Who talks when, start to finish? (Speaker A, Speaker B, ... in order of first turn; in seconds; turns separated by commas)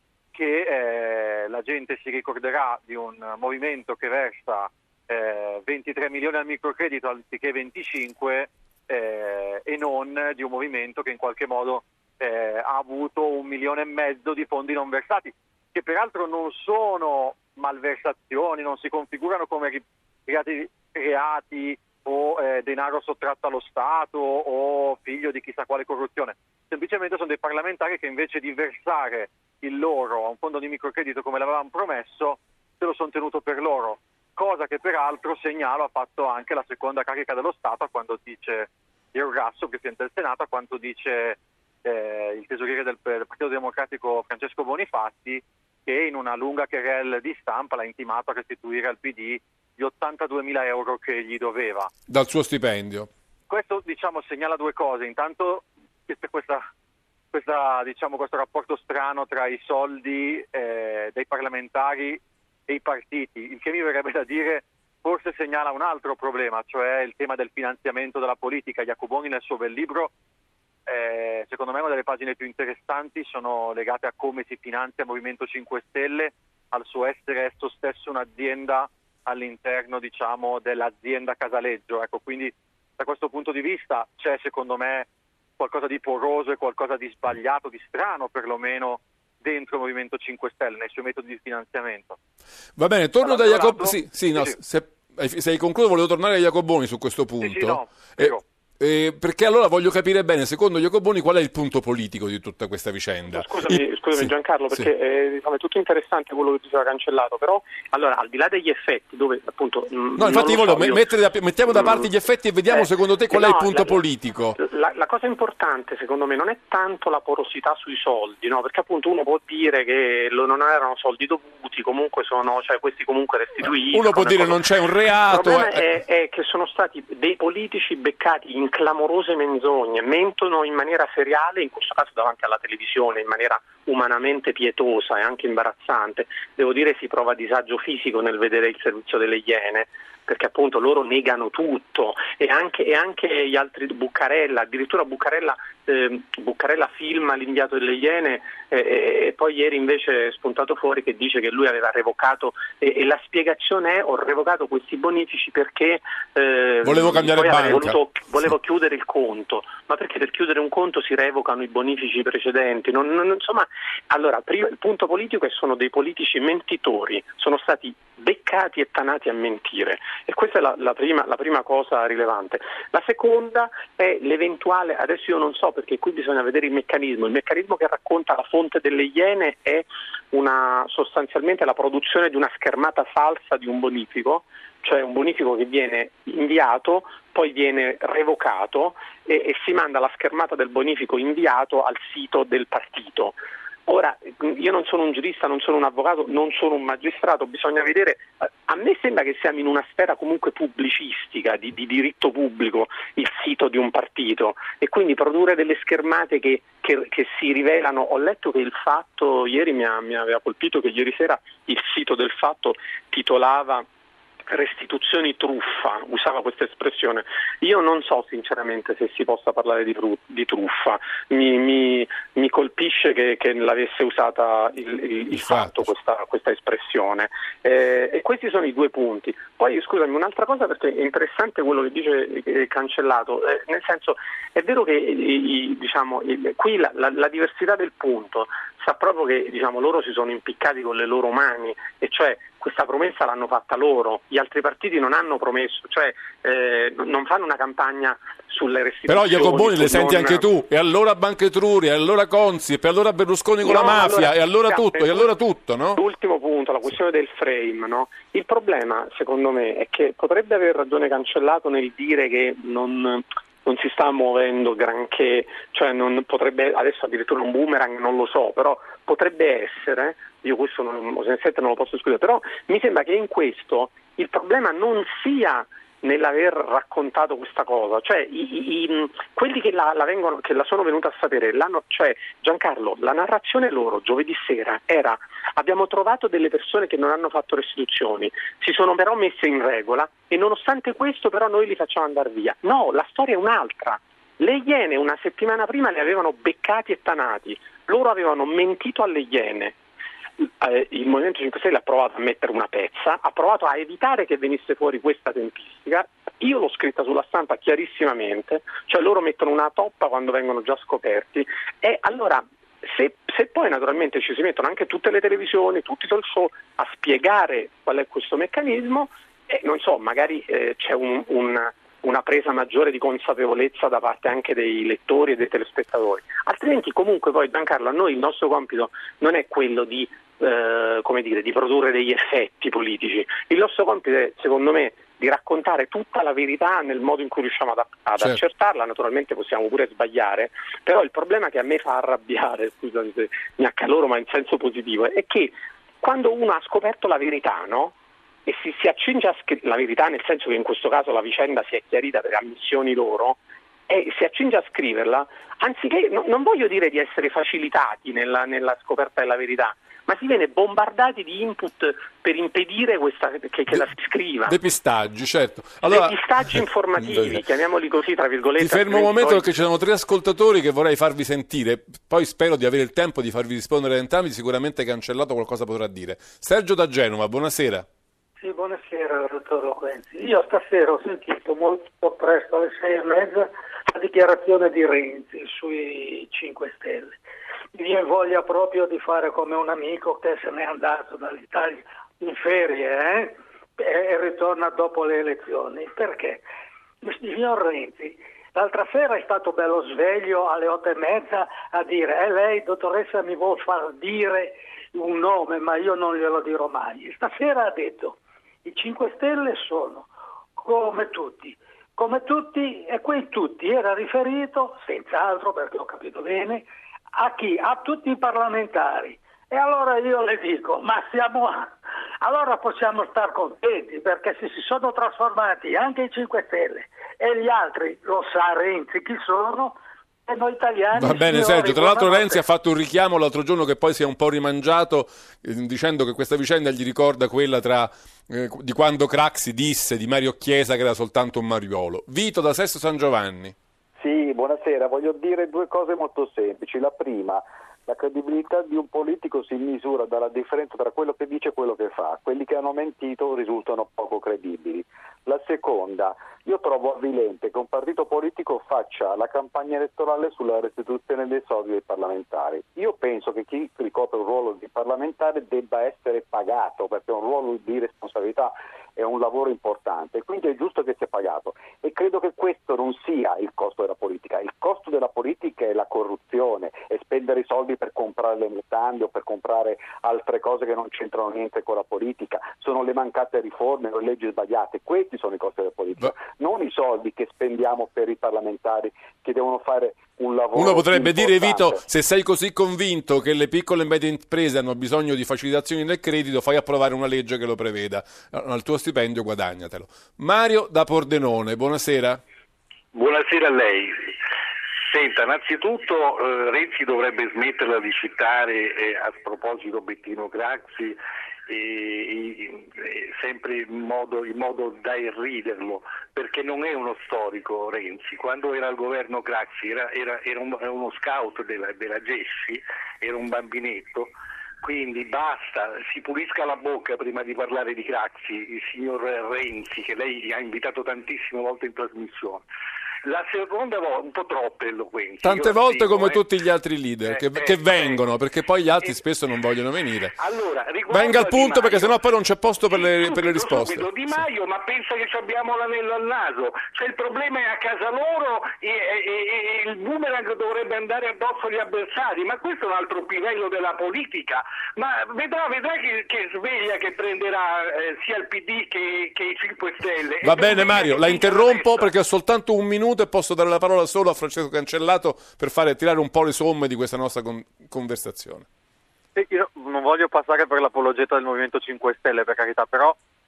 Speaker A: 0.3-51.9, Speaker B: 52.1-53.1, Speaker A: 53.5-56.6, Speaker A: 57.3-70.1, Speaker A: 70.8-85.1, Speaker A: 85.6-92.2, Speaker B: 92.8-104.9, Speaker A: 93.2-94.5, Speaker A: 97.4-98.4, Speaker C: 103.3-111.1, Speaker B: 110.2-114.6, Speaker C: 111.6-112.1, Speaker C: 112.7-114.0, Speaker C: 114.6-124.6, Speaker B: 123.9-125.8, Speaker C: 125.2-213.8, Speaker B: 156.8-158.0, Speaker C: 214.5-250.5, Speaker B: 225.3-225.9, Speaker B: 249.1-256.0, Speaker C: 253.6-255.3, Speaker C: 255.9-299.8, Speaker C: 300.4-353.4, Speaker C: 353.9-364.6, Speaker B: 364.4-366.2, Speaker C: 365.8-369.5, Speaker B: 367.0-367.4, Speaker B: 368.6-377.9, Speaker D: 378.4-387.2, Speaker D: 387.7-396.4, Speaker D: 397.0-432.4, Speaker B: 430.9-443.5, Speaker E: 444.0-491.8, Speaker B: 490.5-502.2, Speaker F: 502.9-504.1, Speaker F: 504.9-532.4, Speaker F: 533.0-536.2, Speaker B: 535.2-540.2, Speaker F: 537.0-538.0, Speaker F: 540.1-542.0, Speaker B: 540.9-544.2, Speaker F: 542.7-561.9, Speaker B: 560.2-568.5, Speaker A: 569.1-573.0